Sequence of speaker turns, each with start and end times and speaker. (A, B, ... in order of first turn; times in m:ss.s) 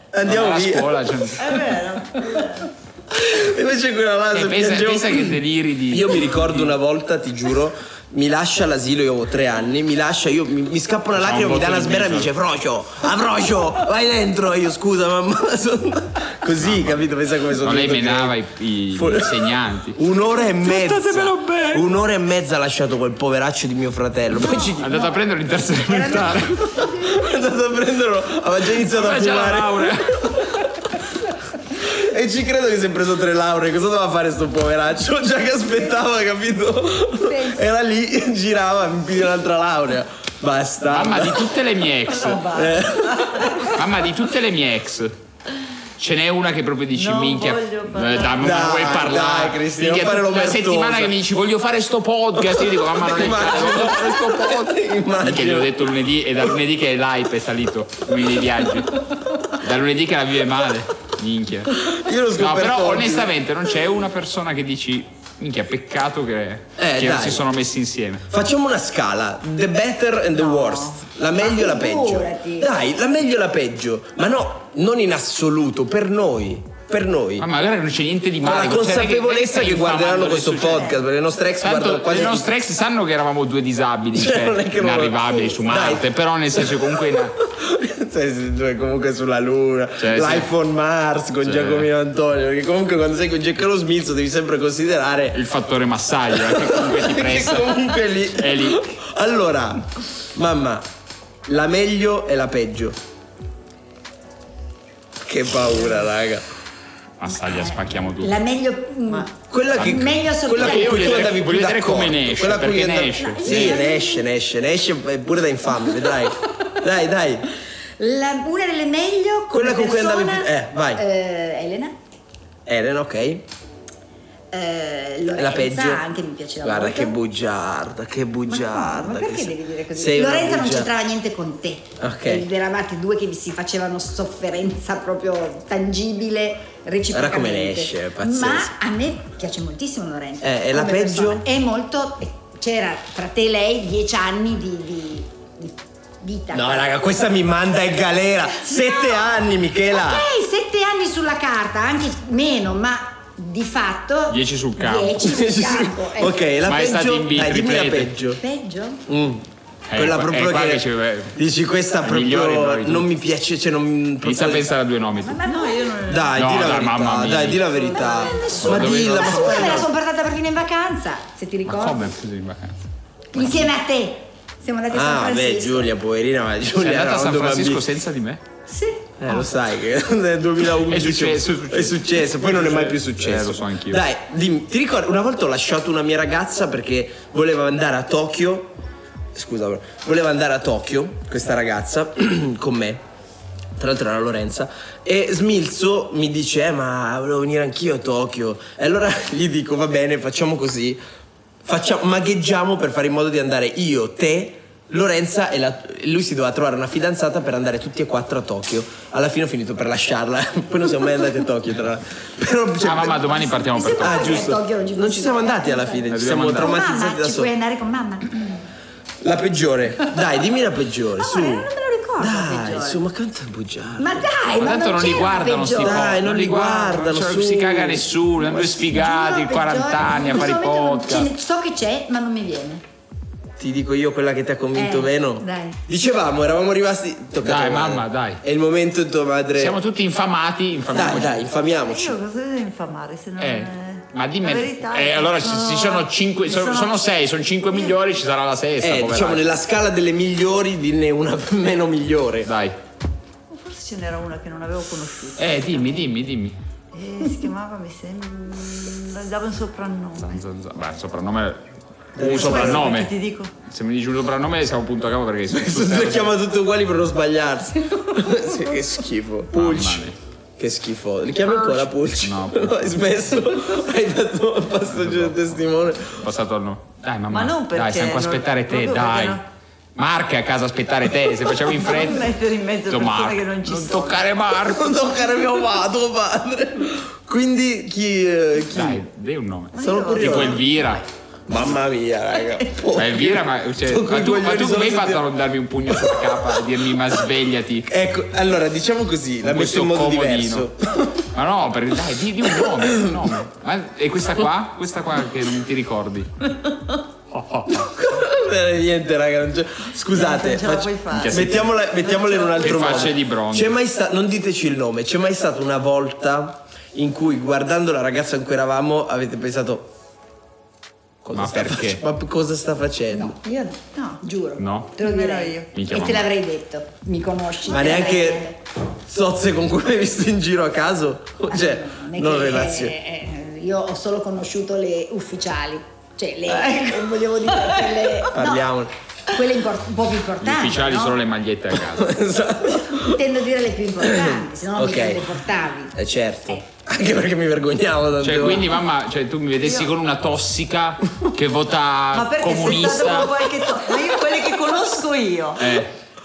0:00.1-0:01.0 A
0:00.2-0:01.6 B
0:01.4-0:02.7 C
0:03.1-0:05.4 A
0:04.3-0:06.7 B
0:05.9-0:18.4 A
0:11.2-0:12.3 B
0:16.6-0:17.1 B
0:17.6-0:20.0 B
0:18.9-0:25.0 A
0:20.6-0:21.9 B
0:24.6-0:25.1 D
0:24.8-0:26.9 B
0:25.9-0:27.2 D
0:27.1-0:30.0 A
0:28.9-0:30.5 B
0:31.8-0:41.5 A
0:37.2-0:37.6 D
0:40.9-0:42.5 B
0:42.2-0:43.7 C
0:42.5-0:43.6 A
0:43.6-0:45.1 B
0:46.0-0:54.6 B
0:46.9-0:48.5 C
0:48.4-0:51.2 A
0:52.6-0:55.8 A
0:55.2-0:59.0 B
0:59.5-1:01.8 B
1:01.8-1:03.3 A
1:02.4-1:08.2 B
1:06.8-1:07.4 A
1:08.3-1:17.5 A
1:10.4-1:11.0 C
1:11.3-1:12.7 D
1:17.4-1:21.0 B
1:18.4-1:22.5 A
1:21.6-1:27.4 B
1:24.1-1:35.4 A
1:30.0-1:30.5 B
1:31.4-1:31.9 B
1:35.3-1:38.9 B
1:36.5-1:40.9 A
1:41.5-1:43.0 A
1:45.2-1:46.4 A
1:47.2-1:48.4 B
1:48.2-1:51.4 D
1:49.5-1:57.5 A
1:49.9-1:53.8 B
1:53.3-1:54.2 D
1:58.0-2:02.0 D
1:59.5-2:01.0 A
2:02.7-2:03.5 A
2:04.5-2:07.1 D
2:05.4-2:06.0 A
2:06.6-2:10.9 A
2:08.5-2:26.9 D
2:12.0-2:12.5 A
2:17.1-2:18.7 A
2:20.4-2:21.5 A
2:26.5-2:30.3 A
2:28.6-2:36.4 D
2:34.3-2:35.3 B
2:35.2-2:38.4 A
2:36.6-2:38.1 B
2:38.4-2:39.0 D
2:39.1-2:44.7 A
2:39.9-2:41.4 B
2:42.0-2:43.1 B
2:44.2-2:45.4 B
2:45.2-2:46.0 D
2:45.4-2:46.4 C
2:46.1-2:49.9 A
2:46.3-2:47.7 B
2:47.8-2:52.1 D
2:48.1-2:48.4 C
2:48.6-2:49.7 B
2:51.6-2:52.8 B
2:53.3-2:55.9 D
2:53.4-2:53.7 A
2:54.9-2:57.8 A
2:56.8-2:58.4 B
2:58.7-2:59.5 D
2:59.2-3:08.7 A
3:00.9-3:04.0 B
3:09.3-3:13.0 A
3:13.8-3:21.0 A
3:21.6-3:33.4 A
3:32.8-3:34.4 B
3:33.3-3:38.4 D
3:34.0-3:37.5 A
3:36.1-3:36.7 B
3:39.2-3:44.4 A
3:41.2-3:43.0 D
3:44.0-3:46.2 D
3:44.6-3:51.3 B
3:45.8-3:48.1 A
3:48.4-3:52.8 D
3:53.6-3:59.8 A
3:54.8-3:55.1 D
3:55.4-3:55.8 C
3:57.4-3:58.4 B
3:59.6-4:01.4 B
4:00.9-4:02.2 A
4:01.7-4:07.1 C
4:03.4-4:09.4 B
4:08.8-4:12.5 A
4:12.5-4:12.8 B
4:13.5-4:16.1 C
4:15.4-4:16.6 B
4:16.9-4:20.4 C
4:20.2-4:21.6 B
4:22.2-4:23.0 A
4:22.2-4:23.1 B
4:22.2-4:23.5 C
4:23.7-4:26.3 B
4:25.5-4:30.1 A
4:29.5-4:30.2 B
4:30.6-4:36.2 A
4:32.2-4:33.1 B
4:34.9-4:35.5 B
4:36.2-4:39.4 B
4:37.3-4:39.4 C
4:40.0-4:42.3 B
4:41.7-4:44.3 C
4:42.9-4:45.0 B
4:44.7-4:49.0 A
4:48.7-4:51.0 B
4:49.7-4:50.6 C
4:49.8-4:50.7 A
4:51.5-4:55.2 A
4:52.9-4:57.9 B
4:57.9-5:01.2 A
4:59.4-5:00.7 B
5:01.3-5:06.3 B
5:06.6-5:06.9 C
5:07.3-5:08.1 B
5:07.8-5:19.9 A
5:10.1-5:13.1 C
5:11.1-5:11.8 B
5:12.6-5:13.7 B
5:21.2-5:22.0 B
5:21.3-5:23.4 A
5:23.1-5:28.6 D
5:24.6-5:25.0 B
5:25.0-5:25.7 C
5:25.7-5:26.3 B
5:27.7-5:28.5 A
5:29.1-5:33.0 A
5:31.5-5:38.7 D
5:37.6-5:37.8 C
5:38.3-5:38.9 A
5:39.3-5:41.2 D
5:40.4-5:42.1 B
5:41.9-5:43.2 A
5:43.0-5:45.9 D
5:44.0-5:45.4 A
5:45.9-5:48.8 A
5:48.2-5:53.4 B
5:49.6-5:49.9 C
5:52.1-5:55.8 C
5:55.6-5:56.0 B